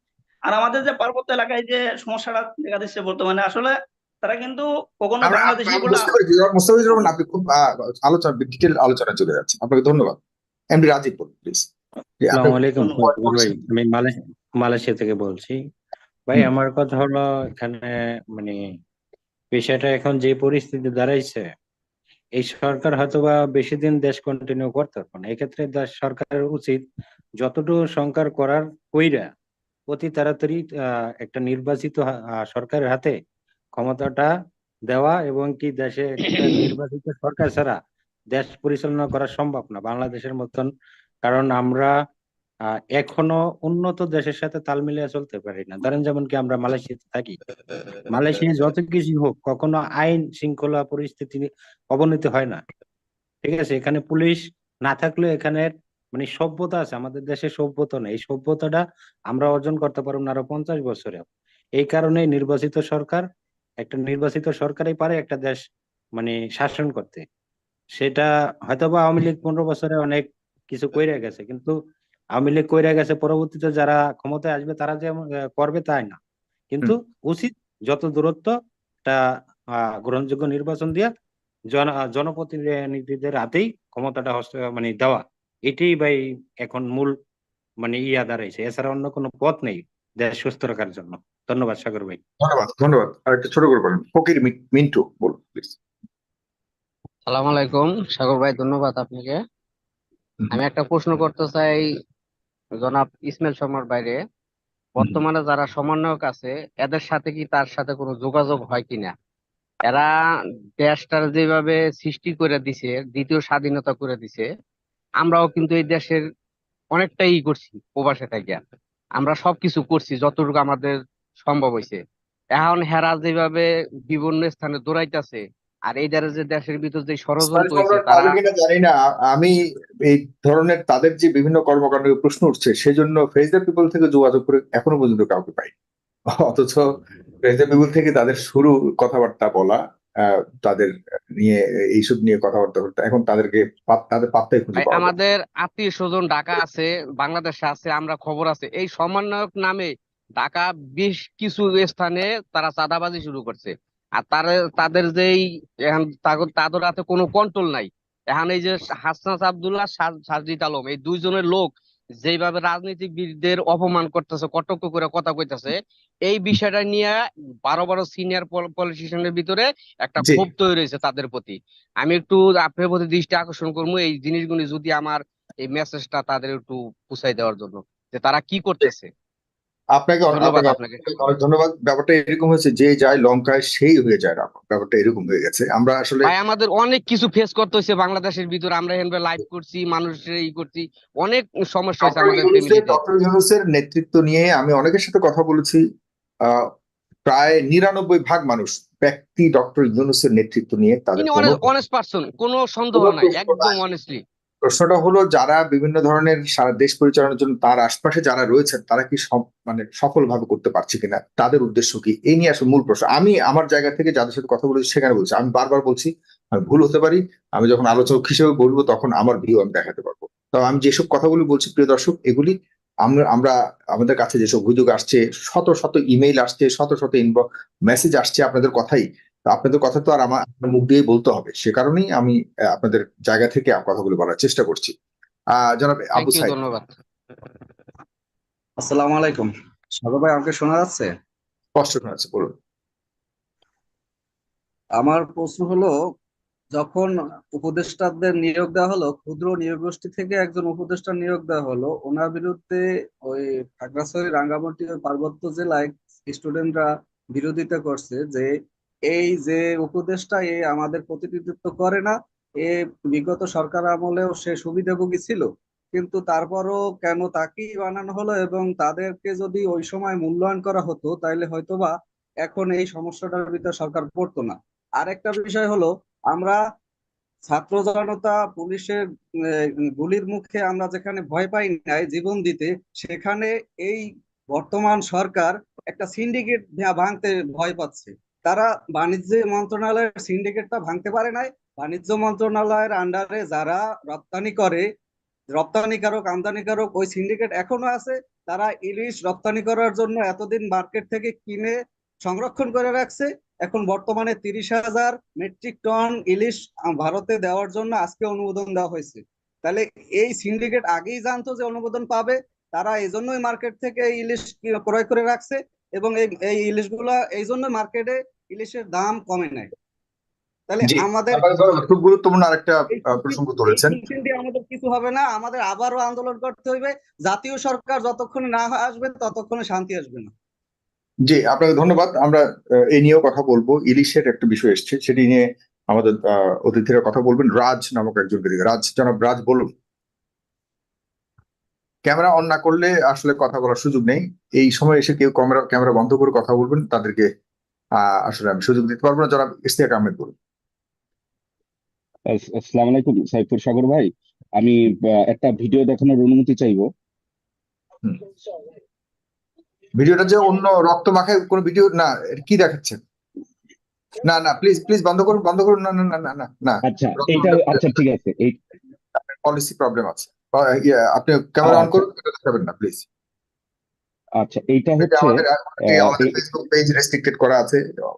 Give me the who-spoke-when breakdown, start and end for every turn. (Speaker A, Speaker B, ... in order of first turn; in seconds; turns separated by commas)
Speaker A: 0.5-6.0, Speaker B: 5.2-10.2, Speaker B: 10.7-11.7, Speaker B: 12.2-13.6, Speaker C: 12.3-15.6, Speaker A: 12.8-13.1, Speaker C: 16.3-18.6, Speaker C: 19.5-21.5, Speaker C: 22.4-26.8, Speaker C: 27.4-29.3, Speaker C: 29.9-30.6, Speaker C: 31.2-33.1, Speaker C: 33.7-34.3, Speaker C: 34.9-37.8, Speaker C: 38.3-40.7, Speaker C: 41.2-41.9, Speaker C: 43.0-47.4, Speaker C: 48.1-52.6, Speaker C: 53.4-61.3, Speaker C: 61.8-63.2, Speaker C: 63.8-65.6, Speaker C: 66.2-67.2, Speaker C: 68.0-71.8, Speaker C: 72.3-76.2, Speaker C: 76.7-78.5, Speaker C: 80.0-81.1, Speaker C: 81.7-87.1, Speaker C: 87.8-92.2, Speaker B: 92.4-95.8, Speaker D: 97.3-99.4, Speaker D: 100.5-101.8, Speaker D: 102.8-104.2, Speaker D: 105.0-109.1, Speaker D: 110.8-114.5, Speaker D: 115.2-116.2, Speaker D: 116.9-118.6, Speaker D: 119.2-122.0, Speaker D: 122.5-128.4, Speaker B: 127.4-129.5, Speaker B: 130.1-135.7, Speaker B: 136.4-136.9, Speaker B: 137.4-145.2, Speaker D: 144.8-179.1, Speaker B: 170.2-170.5, Speaker B: 180.0-186.3, Speaker D: 180.3-181.4, Speaker D: 186.2-193.0, Speaker B: 192.0-195.8, Speaker B: 197.3-201.7, Speaker D: 201.2-204.2, Speaker B: 202.9-203.8, Speaker B: 204.6-234.9, Speaker B: 235.6-236.6, Speaker D: 236.2-237.0, Speaker E: 238.8-241.1, Speaker B: 241.8-242.5, Speaker E: 245.0-245.9, Speaker E: 246.7-258.5, Speaker E: 259.1-271.9, Speaker E: 272.4-276.6, Speaker E: 277.5-279.0, Speaker E: 279.6-294.9, Speaker E: 295.5-301.7, Speaker E: 302.2-319.7, Speaker E: 320.7-321.5, Speaker B: 320.8-324.0, Speaker E: 322.9-330.3, Speaker B: 331.3-339.7, Speaker B: 342.1-347.3, Speaker B: 348.0-350.3, Speaker F: 352.3-356.9, Speaker B: 360.0-363.0, Speaker B: 364.2-368.0, Speaker F: 366.8-368.6, Speaker B: 369.2-373.1, Speaker F: 371.6-372.0, Speaker F: 374.4-376.3, Speaker B: 375.0-377.8